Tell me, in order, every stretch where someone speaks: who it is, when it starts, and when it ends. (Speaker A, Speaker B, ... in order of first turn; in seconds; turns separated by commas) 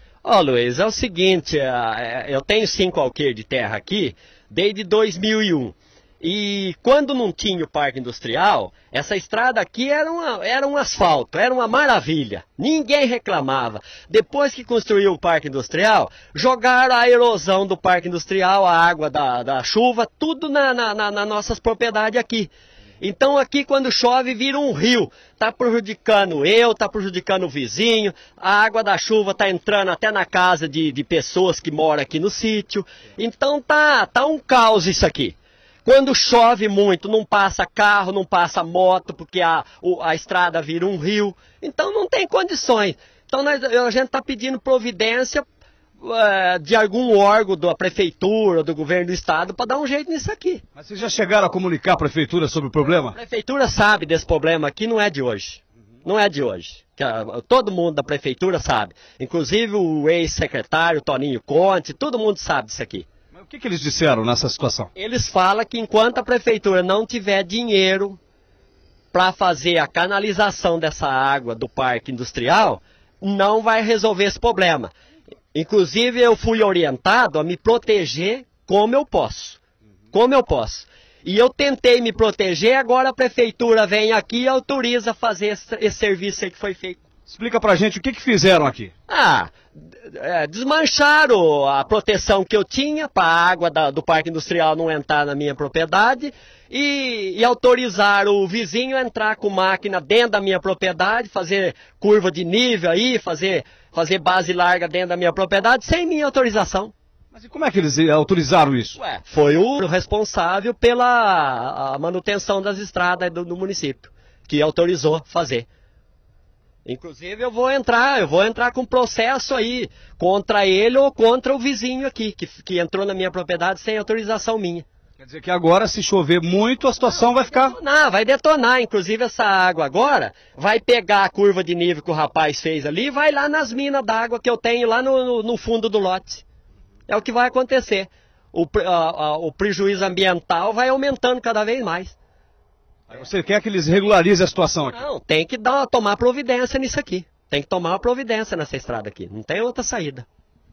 Speaker A: 0.2-45.4, Speaker A: 46.0-50.6, Speaker B: 50.8-53.1, Speaker A: 53.1-63.0, Speaker B: 63.3-64.9, Speaker A: 64.9-68.2, Speaker A: 69.1-74.9, Speaker A: 75.5-79.6, Speaker A: 80.1-87.0, Speaker B: 87.3-88.9, Speaker A: 89.1-106.9, Speaker B: 107.3-109.0, Speaker A: 109.0-115.7, Speaker A: 116.8-124.8, Speaker B: 125.2-127.8, Speaker A: 127.5-136.4, Speaker A: 137.1-142.2, Speaker B: 143.1-145.0, Speaker A: 144.9-150.2